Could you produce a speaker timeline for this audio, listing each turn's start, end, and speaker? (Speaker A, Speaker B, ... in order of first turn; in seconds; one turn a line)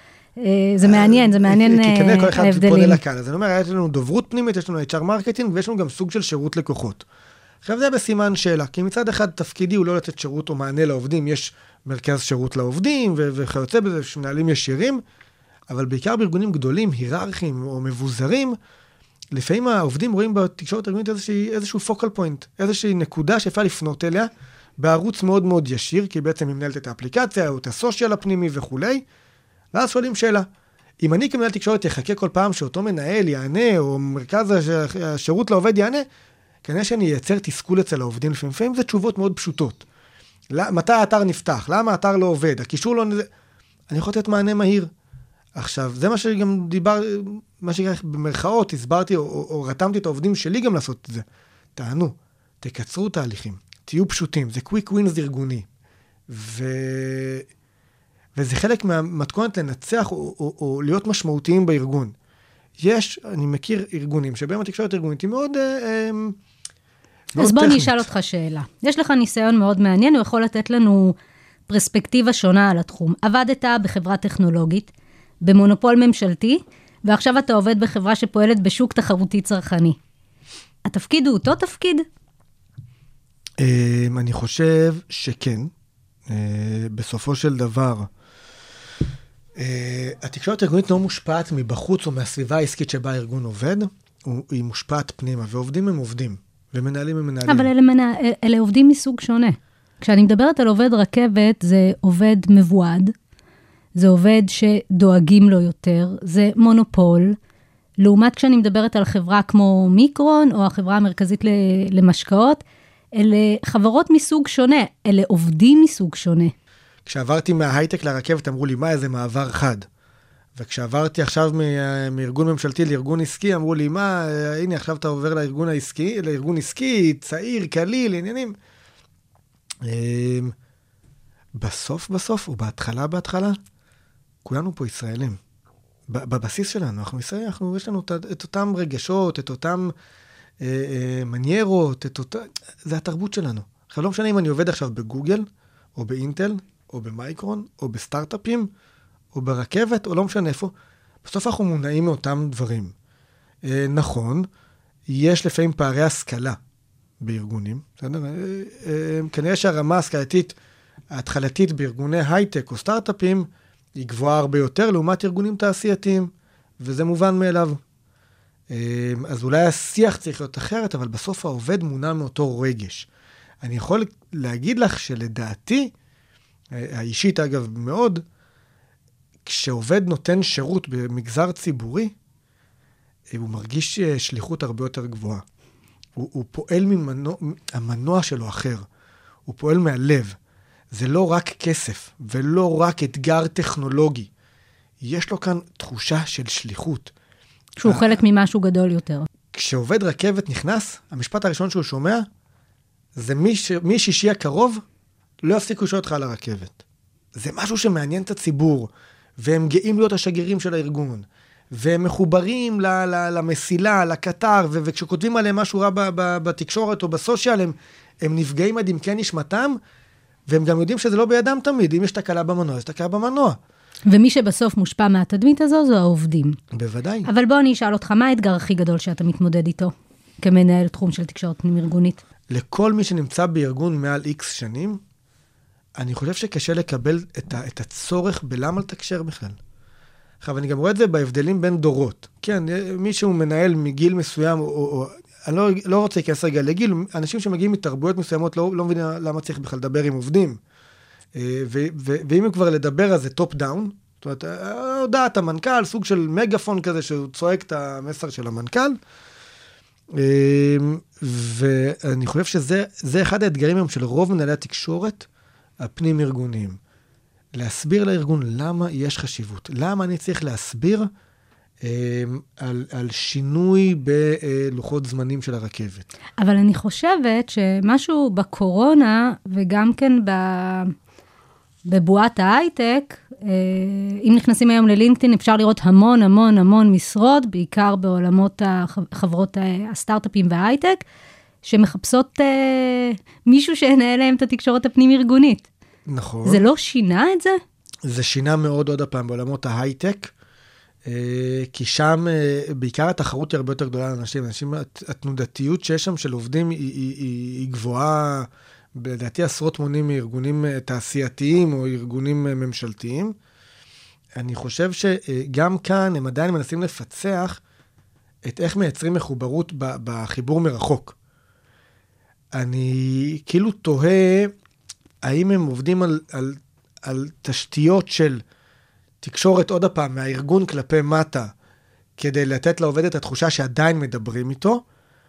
Speaker A: 0.4-3.0
Speaker B: 0.8-7.0
Speaker B: 7.6-15.0
Speaker B: 15.7-18.6
Speaker B: 19.3-29.0
Speaker B: 29.7-30.5
Speaker B: 31.0-36.0
Speaker B: 36.6-39.9
Speaker B: 40.5-43.3
Speaker B: 43.9-44.9
Speaker B: 45.5-51.2
Speaker B: 51.8-55.6
Speaker B: 56.3-57.5
Speaker B: 58.4-62.1
Speaker B: 62.8-66.4
Speaker B: 67.3-68.1
Speaker A: 67.3-71.2
Speaker A: 71.7-74.9
Speaker A: 75.4-80.0
Speaker A: 80.9-82.0
Speaker B: 83.6-85.7
Speaker B: 86.3-88.1
Speaker B: 89.6-97.7
Speaker A: 97.5-103.1
Speaker A: 104.0-107.4
Speaker A: 108.0-112.6
Speaker A: 113.1-116.5
Speaker B: 117.0-119.9
Speaker B: 120.5-128.6
Speaker B: 129.8-130.5
Speaker B: 131.6-133.6
Speaker B: 134.4-135.4
Speaker B: 136.1-139.9
Speaker B: 140.6-148.7
Speaker B: 149.3-150.7
Speaker B: 151.2-152.9
Speaker B: 153.6-154.5
Speaker B: 155.1-156.6
Speaker B: 157.2-160.5
Speaker B: 161.1-167.8
Speaker B: 168.7-173.1
Speaker B: 173.6-175.9
Speaker B: 176.7-178.2
Speaker B: 179.4-182.1
Speaker B: 183.3-185.4
Speaker B: 186.2-188.8
Speaker B: 189.4-190.4
Speaker B: 190.9-194.3
Speaker B: 195.0-197.1
Speaker A: 197.8-199.3
Speaker B: 197.8-198.2
Speaker B: 199.5-202.2
Speaker B: 203.2-204.8
Speaker B: 205.4-206.8
Speaker B: 207.3-219.8
Speaker B: 220.5-223.6
Speaker A: 224.1-226.6
Speaker B: 226.7-227.3
Speaker A: 227.2-232.2
Speaker B: 232.5-235.0
Speaker B: 236.0-239.6
Speaker B: 240.4-250.6
Speaker B: 251.3-259.0
Speaker B: 260.1-265.3
Speaker B: 265.8-266.8
Speaker B: 267.5-271.1
Speaker B: 271.8-276.1
Speaker A: 276.4-280.9
Speaker A: 281.9-291.0
Speaker A: 291.6-295.6
Speaker B: 296.1-296.6
Speaker A: 296.4-297.6
Speaker B: 298.0-300.3
Speaker B: 301.0-313.3
Speaker B: 314.4-317.6
Speaker B: 318.4-321.1
Speaker B: 322.5-324.5
Speaker B: 325.2-328.4
Speaker B: 329.2-331.5
Speaker B: 332.2-334.8